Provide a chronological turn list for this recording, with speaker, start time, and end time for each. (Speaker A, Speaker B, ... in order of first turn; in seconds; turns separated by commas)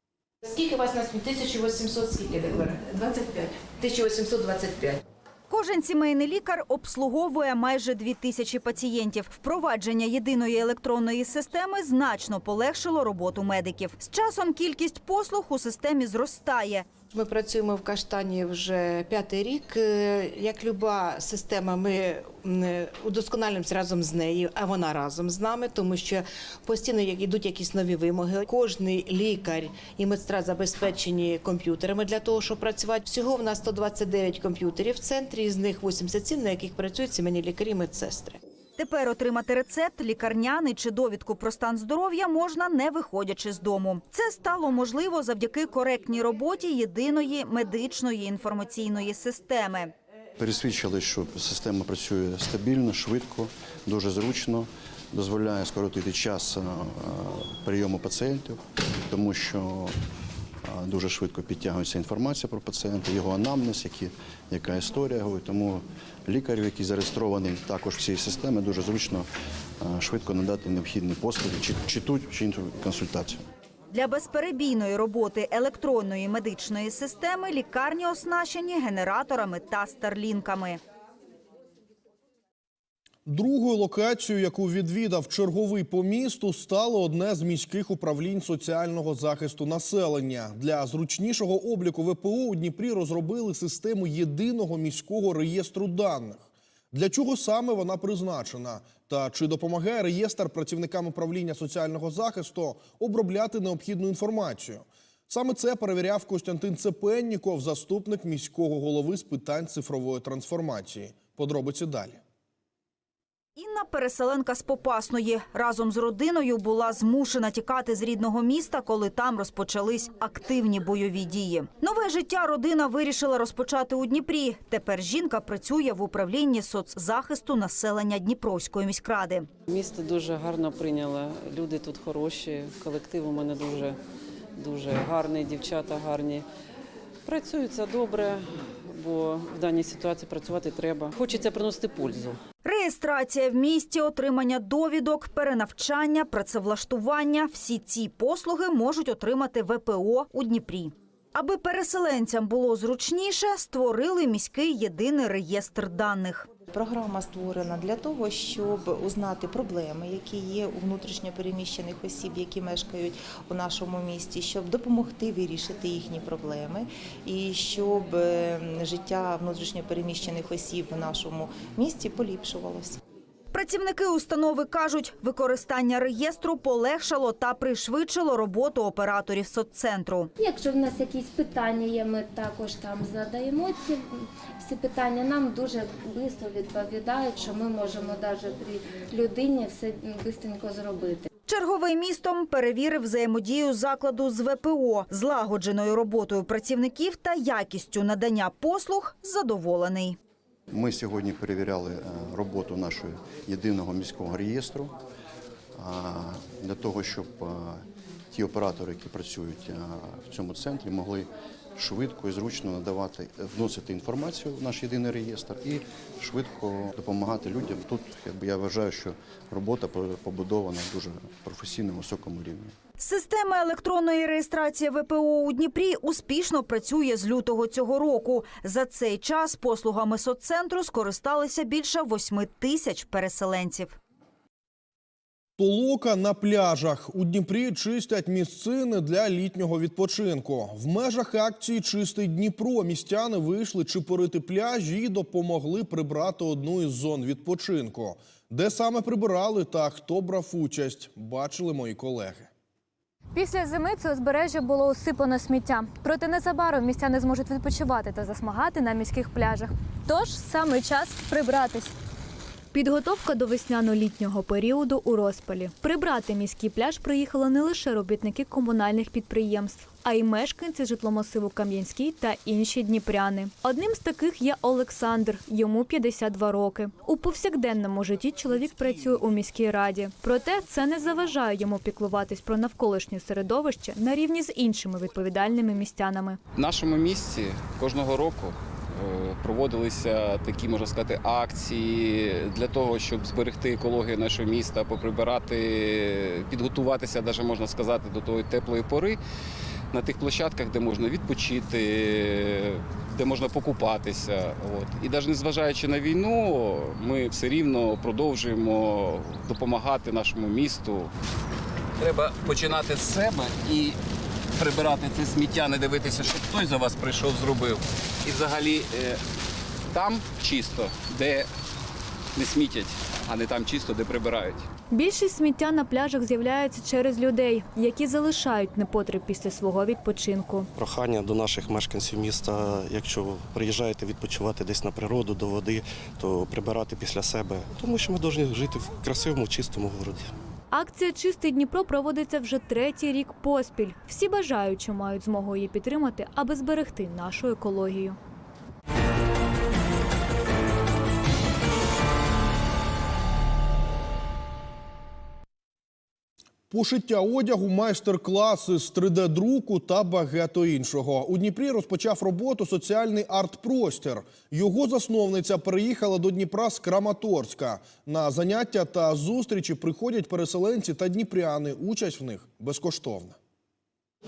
Speaker A: 0.4-5.0, Speaker B: 5.5-16.9, Speaker A: 17.1-38.4, Speaker B: 38.8-49.9, Speaker C: 50.4-59.9, Speaker C: 60.6-69.3, Speaker C: 69.8-73.4, Speaker B: 73.9-80.8, Speaker D: 83.2-112.2, Speaker B: 113.6-129.5, Speaker E: 129.7-134.0, Speaker E: 134.6-136.4, Speaker E: 137.2-142.4, Speaker B: 142.6-156.5, Speaker F: 156.7-173.0, Speaker B: 173.5-180.3, Speaker G: 180.4-191.3, Speaker B: 191.5-200.2, Speaker C: 200.7-204.9, Speaker C: 205.8-222.8, Speaker B: 223.0-233.9, Speaker D: 235.6-252.5, Speaker H: 253.3-261.9, Speaker H: 262.7-286.4, Speaker I: 286.6-299.2, Speaker I: 299.9-311.1, Speaker I: 312.0-314.0, Speaker I: 314.6-319.2, Speaker I: 319.9-321.5, Speaker I: 322.4-324.7, Speaker H: 324.9-330.7, Speaker J: 330.7-340.3, Speaker H: 340.7-348.2, Speaker D: 356.7-373.4